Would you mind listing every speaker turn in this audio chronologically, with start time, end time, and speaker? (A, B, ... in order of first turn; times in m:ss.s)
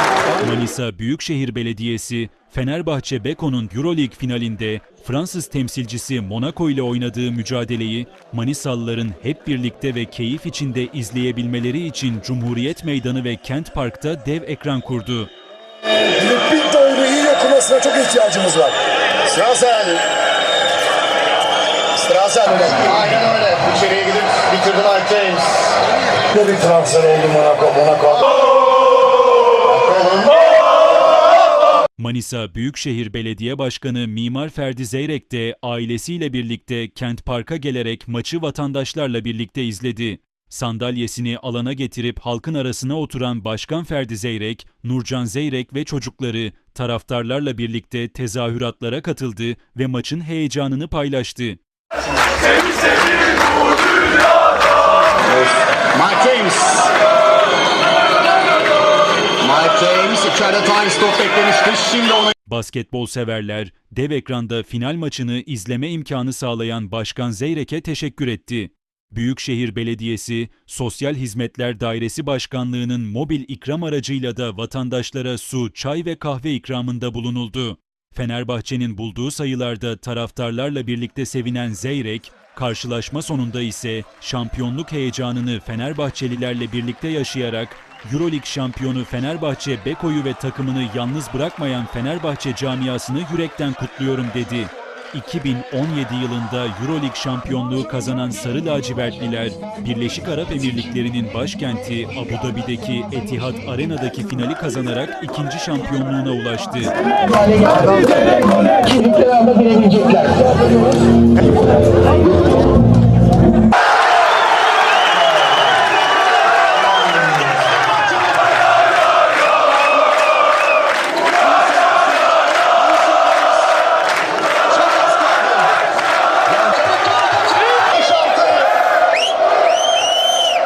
0:00.4-0:15.3 A
0:16.0-0:20.0 B
0:22.0-0:23.3 B
0:22.9-0:25.8 C
0:26.3-0:28.4 B
0:29.8-0:30.4 C
0:32.0-0:51.6 A
0:55.8-0:56.9 C
0:59.4-1:02.3 C
1:02.4-1:46.9 A
1:47.3-1:51.0 C
2:04.8-2:05.6 C
2:06.5-2:08.7 C